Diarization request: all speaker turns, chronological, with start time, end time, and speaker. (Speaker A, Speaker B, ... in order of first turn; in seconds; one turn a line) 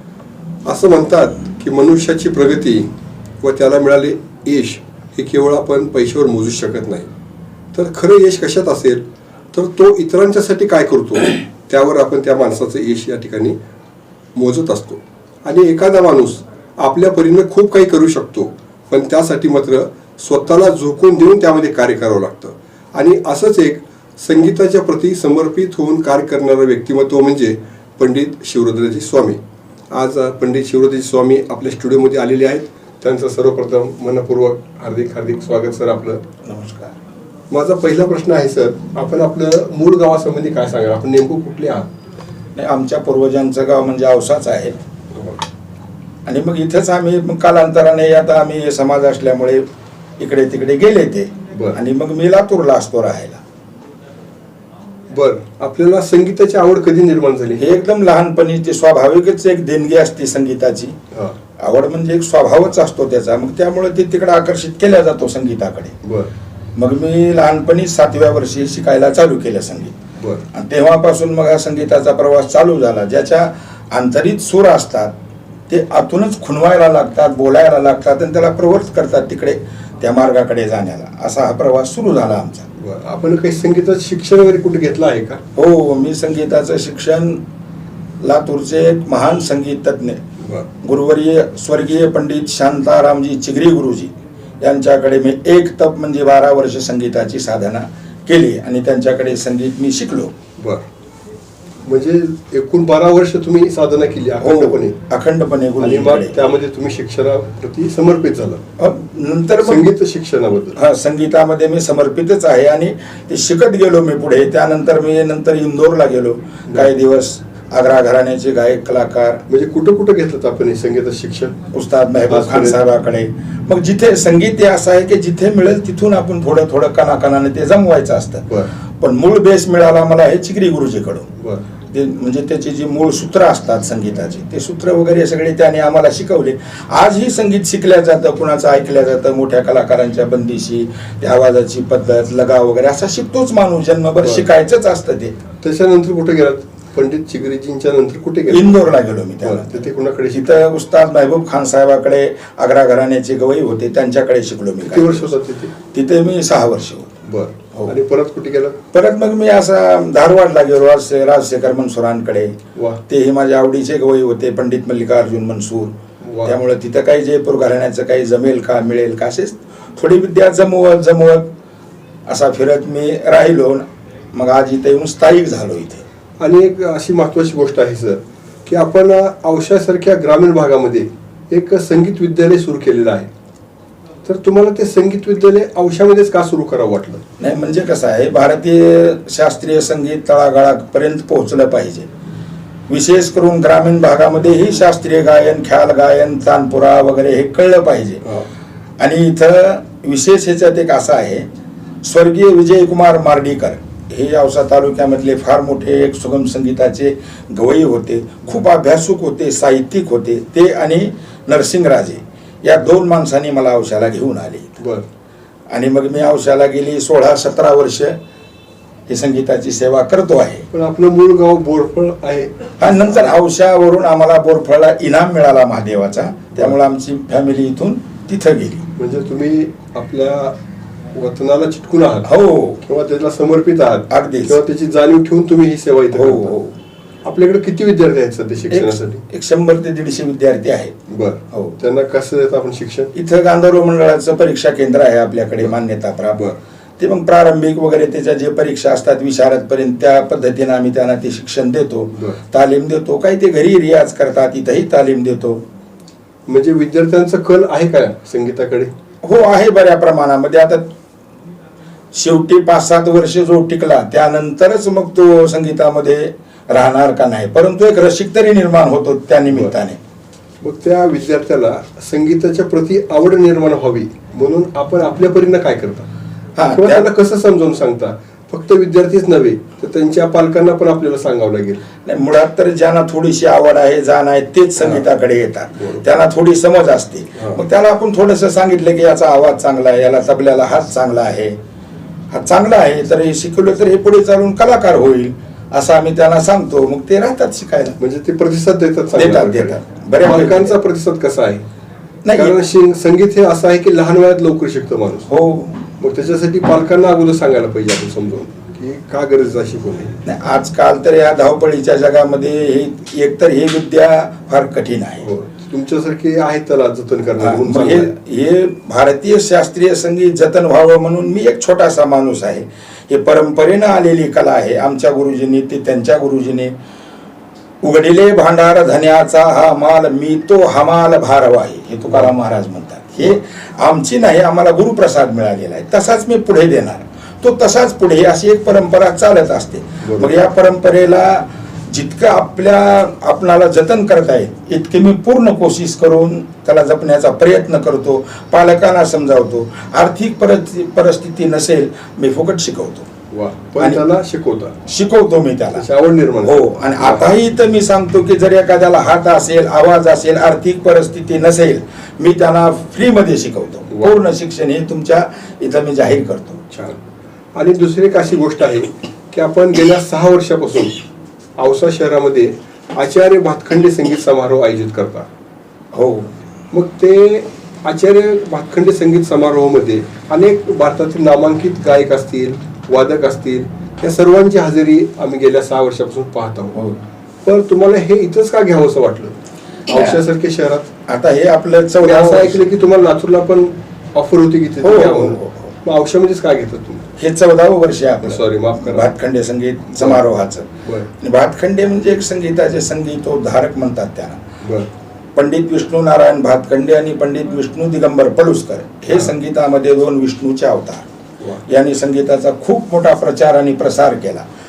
Speaker A: 0.6-7.1
Speaker A: 7.7-13.6
Speaker A: 14.3-29.4
Speaker A: 29.9-36.2
Speaker B: 36.4-37.0
Speaker A: 37.5-41.9
Speaker B: 42.5-44.8
Speaker A: 45.1-45.4
Speaker B: 46.2-49.6
Speaker B: 50.2-53.4
Speaker A: 51.5-51.8
Speaker A: 55.1-57.6
Speaker B: 57.6-61.0
Speaker B: 61.6-66.0
Speaker A: 66.0-66.3
Speaker B: 66.8-69.9
Speaker A: 70.2-70.5
Speaker B: 70.5-75.1
Speaker B: 75.7-82.7
Speaker A: 82.8-85.4
Speaker B: 85.5-87.4
Speaker B: 88.2-90.2
Speaker A: 90.4-90.7
Speaker B: 90.8-100.3
Speaker A: 100.6-100.8
Speaker A: 101.8-104.9
Speaker B: 104.4-106.5
Speaker A: 105.8-108.6
Speaker B: 108.8-109.9
Speaker A: 109.6-110.8
Speaker B: 110.8-119.4
Speaker A: 119.5-121.5
Speaker B: 121.7-131.3
Speaker A: 122.3-122.8
Speaker A: 131.4-131.6
Speaker B: 131.9-145.4
Speaker A: 144.2-144.5
Speaker A: 145.6-148.9
Speaker B: 148.5-155.3
Speaker A: 149.4-150.6
Speaker A: 154.8-155.7
Speaker B: 155.9-157.1
Speaker A: 157.2-158.8
Speaker B: 158.9-165.9
Speaker A: 162.7-163.0
Speaker A: 166.2-166.6
Speaker B: 166.4-171.5
Speaker B: 172.3-176.0
Speaker A: 176.4-183.3
Speaker A: 184.2-187.2
Speaker B: 187.4-192.1
Speaker B: 192.9-198.2
Speaker B: 199.0-201.4
Speaker B: 202.0-214.8
Speaker A: 214.8-215.0
Speaker B: 215.7-218.2
Speaker B: 219.1-220.7
Speaker A: 220.7-223.3
Speaker B: 222.8-228.8
Speaker A: 228.9-230.6
Speaker A: 231.1-236.5
Speaker B: 232.2-232.8
Speaker B: 234.1-234.6
Speaker B: 236.1-236.8
Speaker A: 237.2-239.2
Speaker B: 238.7-240.9
Speaker A: 241.1-243.1
Speaker B: 243.1-246.4
Speaker B: 247.0-255.6
Speaker A: 252.1-252.4
Speaker A: 256.5-258.9
Speaker B: 259.2-260.8
Speaker B: 262.1-270.0
Speaker A: 270.6-276.1
Speaker B: 276.6-277.1
Speaker A: 276.7-281.8
Speaker B: 282.0-291.6
Speaker A: 284.8-285.0
Speaker A: 285.8-286.0
Speaker A: 287.3-287.6
Speaker B: 292.3-298.0
Speaker A: 298.0-301.6
Speaker B: 299.1-300.7
Speaker B: 302.2-302.6
Speaker A: 302.3-305.3
Speaker B: 305.3-305.8
Speaker A: 306.0-310.2
Speaker B: 310.2-315.2
Speaker A: 315.2-318.1
Speaker B: 317.4-326.7
Speaker B: 327.8-353.1
Speaker A: 340.0-340.4
Speaker A: 353.3-354.8
Speaker B: 354.8-355.9
Speaker A: 355.7-357.3
Speaker B: 356.4-366.6
Speaker A: 366.7-367.0
Speaker A: 367.5-371.0
Speaker A: 371.6-375.3
Speaker B: 375.9-376.3
Speaker A: 376.7-386.8
Speaker A: 387.4-389.4
Speaker A: 389.9-390.9
Speaker B: 389.9-390.2
Speaker B: 391.1-392.6
Speaker A: 392.0-397.1
Speaker B: 394.8-395.7
Speaker B: 397.2-404.4
Speaker A: 398.2-399.1
Speaker A: 404.6-404.9
Speaker B: 405.4-411.1
Speaker B: 411.6-414.4